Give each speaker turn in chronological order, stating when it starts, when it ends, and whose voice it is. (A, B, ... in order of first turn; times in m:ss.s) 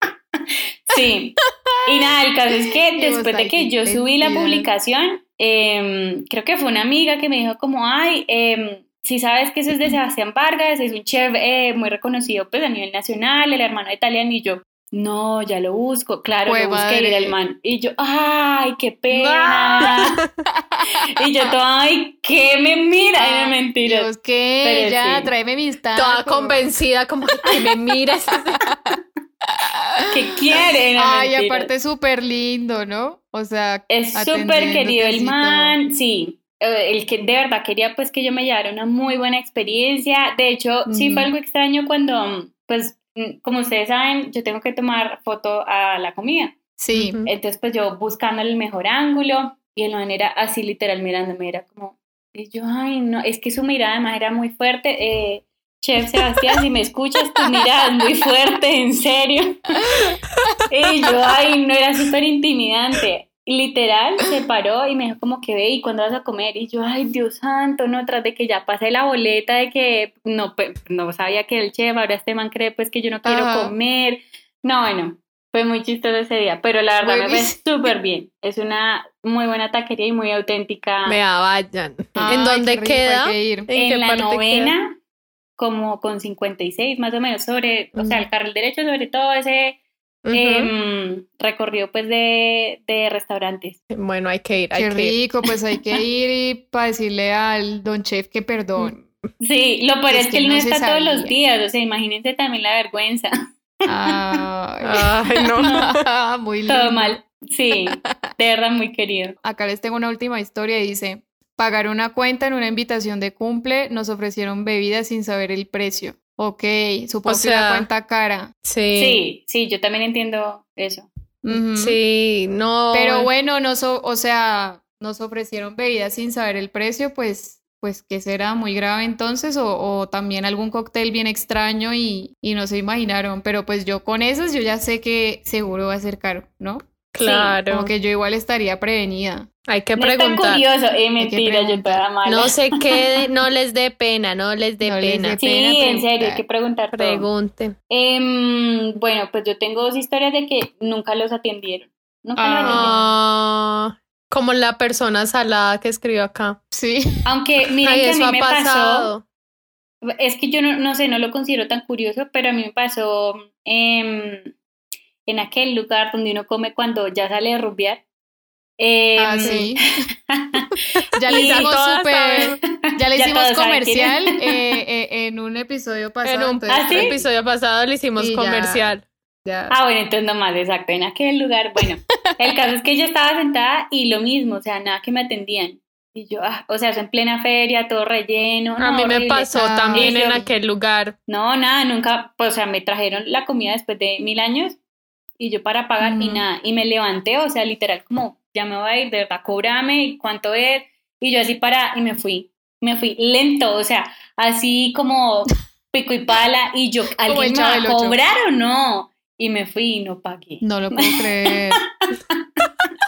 0:00.4-0:20.2 A
0:03.0-0:04.7 B
0:16.4-0:17.3 B
0:19.1-0:20.0 B
0:20.5-0:20.8 B
0:21.2-0:24.1 A
0:23.2-0:26.6 B
0:24.6-0:25.3 A
0:25.9-0:28.6 C
0:28.6-0:35.8 B
0:30.1-0:31.7 A
0:33.9-0:46.6 A
0:40.9-0:41.3 B
0:46.8-0:47.2 B
0:46.9-0:47.3 C
0:47.2-1:00.1 A
1:00.0-1:00.5 B
1:00.7-1:21.2 A
1:13.2-1:13.7 B
1:17.0-1:17.5 B
1:21.0-1:24.7 C
1:22.2-1:23.7 B
1:23.7-1:25.0 A
1:25.6-1:29.8 A
1:30.2-1:30.7 C
1:30.3-1:33.8 A
1:33.9-1:35.1 C
1:34.7-1:39.0 B
1:38.8-1:39.2 C
1:39.4-1:43.3 A
1:40.1-1:41.4 B
1:43.9-1:45.0 B
1:44.1-1:44.4 A
1:44.8-1:45.9 C
1:45.6-1:47.2 B
1:46.7-1:49.4 A
1:49.4-1:58.5 B
1:57.2-1:57.9 C
1:58.6-1:59.2 C
1:59.0-2:01.1 A
2:01.4-2:02.0 B
2:01.5-2:03.3 C
2:02.9-2:16.8 B
2:17.1-2:17.9 C
2:17.2-2:17.6 A
2:17.7-2:19.5 B
2:19.7-2:20.6 C
2:20.0-2:22.6 A
2:21.2-2:22.0 B
2:22.2-2:25.4 C
2:24.8-2:26.4 B
2:25.4-2:27.3 A
2:26.9-2:27.7 C
2:27.9-2:32.9 A
2:32.4-2:33.1 B
2:32.6-2:36.6 C
2:36.7-2:37.0 B
2:37.2-2:39.1 A
2:37.8-2:39.2 C
2:40.1-2:44.5 A
2:45.2-2:48.0 A
2:48.8-2:49.7 A
2:49.2-2:50.0 B
2:49.4-2:49.6 C
2:50.3-2:50.7 A
2:51.2-2:57.2 B
2:51.3-2:51.8 A
2:51.3-2:52.6 C
2:52.4-2:54.6 A
2:56.2-2:59.0 C
2:56.7-2:57.1 A
2:58.2-2:58.8 B
2:59.4-2:59.7 B
2:59.7-3:10.4 A
3:08.8-3:11.1 C
3:09.5-3:10.5 B
3:11.3-3:14.8 A
3:15.4-3:31.3 A
3:16.0-3:16.4 B
3:27.2-3:28.2 B
3:30.6-3:31.8 B
3:32.1-3:32.7 A